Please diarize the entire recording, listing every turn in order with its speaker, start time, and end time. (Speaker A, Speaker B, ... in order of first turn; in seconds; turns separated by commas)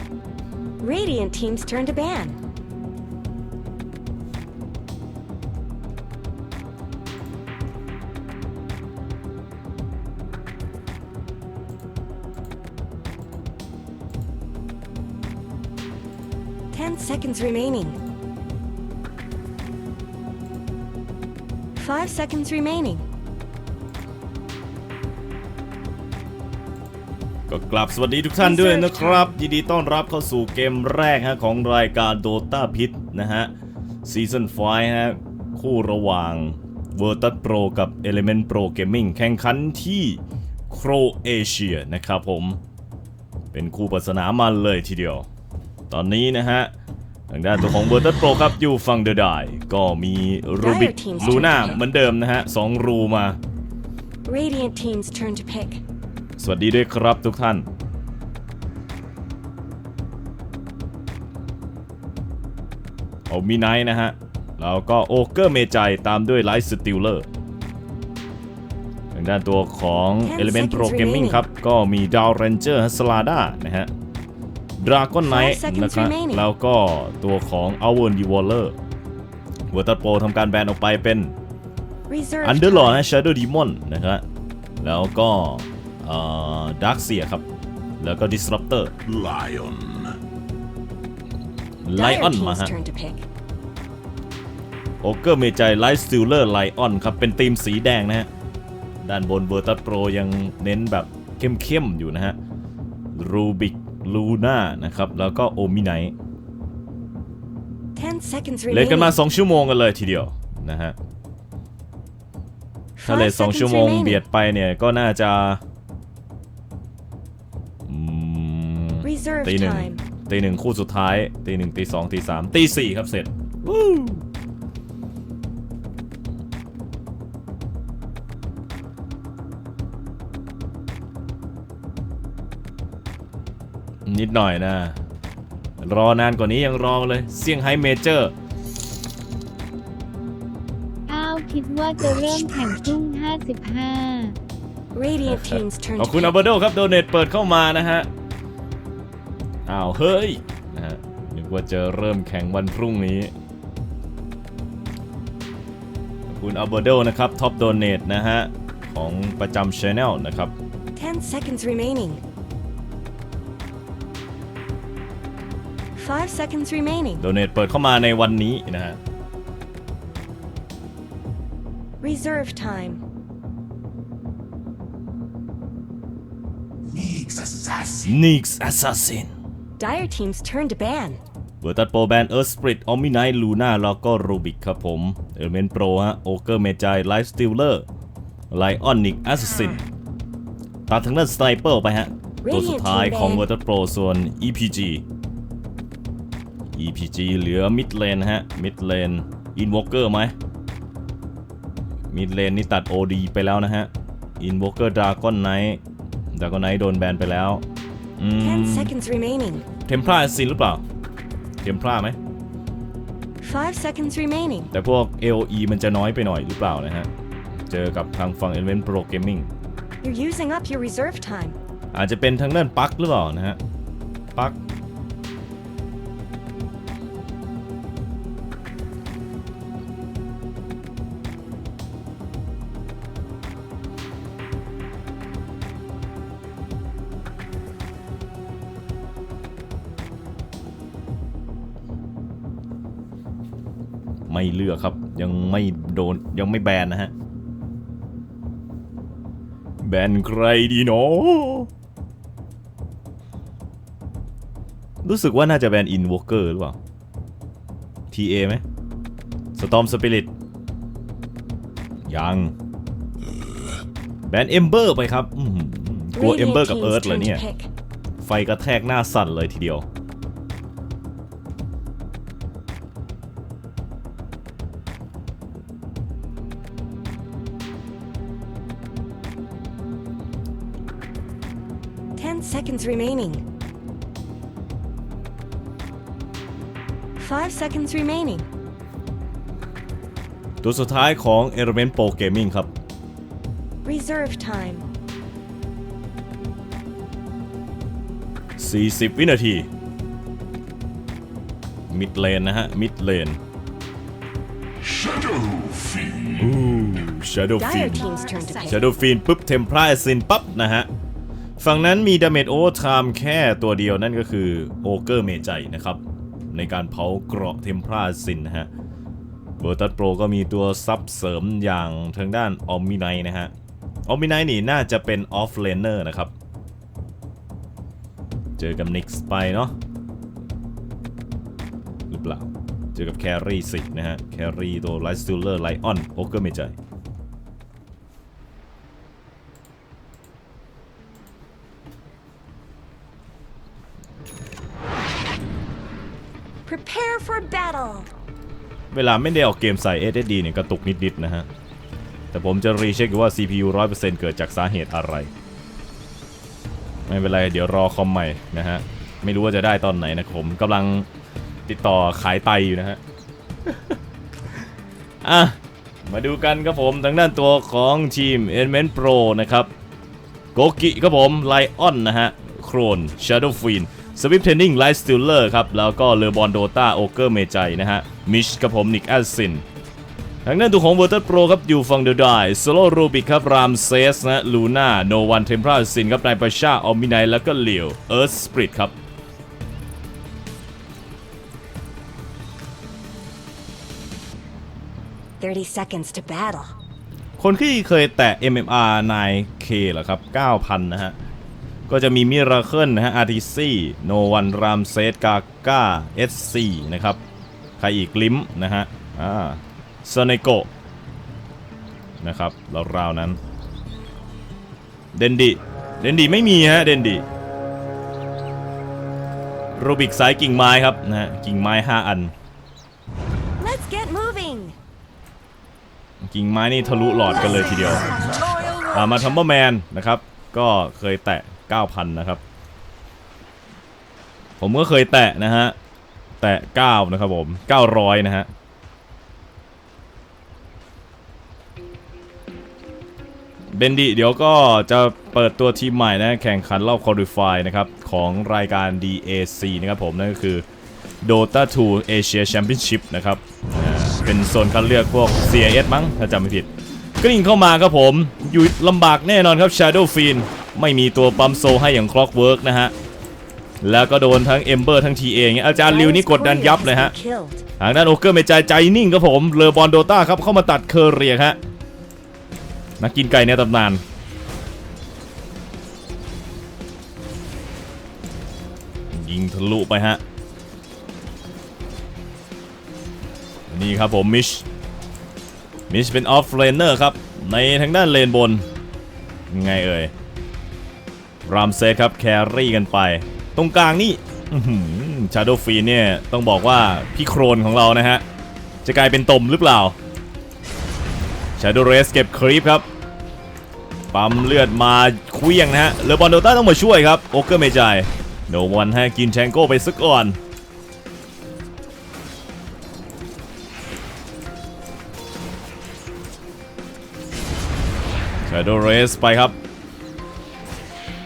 Speaker A: 0.8-2.4, Speaker A: 16.7-18.0, Speaker A: 21.7-23.0, Speaker B: 27.5-33.5, Speaker A: 28.4-29.3, Speaker B: 34.0-42.6, Speaker B: 43.5-45.3, Speaker B: 45.9-46.7, Speaker B: 47.3-53.4, Speaker A: 50.6-51.8, Speaker A: 54.2-55.8, Speaker B: 56.4-57.7, Speaker B: 63.3-67.3, Speaker B: 69.1-73.9, Speaker A: 70.2-71.5, Speaker B: 74.8-78.7, Speaker A: 75.3-76.5, Speaker B: 79.7-81.3, Speaker A: 82.1-83.1, Speaker B: 82.4-84.2, Speaker B: 84.8-87.4, Speaker B: 88.0-88.9, Speaker C: 89.0-90.2, Speaker B: 91.8-92.7, Speaker A: 91.9-93.2, Speaker B: 95.0-98.3, Speaker B: 99.0-102.3, Speaker B: 103.1-106.1, Speaker A: 108.0-109.2, Speaker B: 108.7-111.0, Speaker A: 113.0-114.2, Speaker B: 113.0-115.6, Speaker B: 117.9-124.2, Speaker A: 119.0-120.0, Speaker B: 134.1-135.0, Speaker B: 135.8-138.3, Speaker D: 141.1-144.3, Speaker A: 144.9-146.3, Speaker B: 145.2-148.1, Speaker B: 149.7-153.3, Speaker B: 156.3-160.5, Speaker A: 160.9-162.2, Speaker A: 165.9-167.2, Speaker B: 167.2-169.0, Speaker A: 172.0-173.0, Speaker C: 177.0-178.0, Speaker B: 178.0-179.3, Speaker A: 179.8-181.2, Speaker B: 181.6-187.8, Speaker B: 188.5-189.8, Speaker B: 190.9-195.0, Speaker A: 192.4-193.5, Speaker B: 196.7-200.3, Speaker B: 202.1-205.8, Speaker B: 206.3-207.6, Speaker B: 208.2-208.9, Speaker A: 208.4-209.7, Speaker B: 209.9-210.8, Speaker B: 211.6-212.2, Speaker A: 213.4-214.7, Speaker B: 214.7-217.1, Speaker B: 217.7-219.5, Speaker A: 220.0-221.6, Speaker B: 221.9-223.6, Speaker B: 244.3-247.1, Speaker B: 249.8-251.7, Speaker B: 255.0-256.8, Speaker B: 258.1-258.6, Speaker B: 259.5-260.3, Speaker B: 262.1-262.5, Speaker B: 264.3-267.4, Speaker A: 266.1-267.7, Speaker B: 268.2-269.9, Speaker A: 282.2-283.4, Speaker A: 287.2-288.4, Speaker B: 290.6-292.7, Speaker A: 293.8-294.9, Speaker B: 298.6-299.7, Speaker B: 301.9-303.4, Speaker C: 305.1-306.2, Speaker B: 306.4-310.9, Speaker A: 307.6-308.9, Speaker B: 311.6-318.7, Speaker B: 319.6-323.5, Speaker B: 324.1-326.3, Speaker B: 328.6-329.7, Speaker B: 332.1-336.8, Speaker A: 346.6-348.1, Speaker B: 348.9-351.5, Speaker B: 352.3-355.3, Speaker B: 357.1-361.1, Speaker B: 361.7-363.0, Speaker B: 363.6-364.0, Speaker B: 365.2-369.7, Speaker B: 370.5-379.6, Speaker B: 380.4-388.9, Speaker A: 395.4-396.7, Speaker B: 397.4-401.1, Speaker B: 401.9-407.2, Speaker B: 407.8-410.7, Speaker B: 412.2-413.4, Speaker B: 415.1-417.2, Speaker B: 419.8-422.3, Speaker A: 423.6-424.8, Speaker B: 426.2-428.1, Speaker B: 428.9-432.4, Speaker B: 434.6-435.8, Speaker B: 436.4-438.5, Speaker B: 443.7-450.6, Speaker B: 451.2-462.9, Speaker B: 463.8-467.1, Speaker A: 465.9-467.6, Speaker B: 467.8-471.6, Speaker B: 473.0-474.0, Speaker B: 479.1-480.2, Speaker B: 483.7-484.6, Speaker B: 485.9-488.6, Speaker B: 489.5-490.1, Speaker B: 491.5-498.2, Speaker B: 498.8-499.9, Speaker B: 501.6-502.8, Speaker B: 504.1-510.4, Speaker B: 518.5-519.5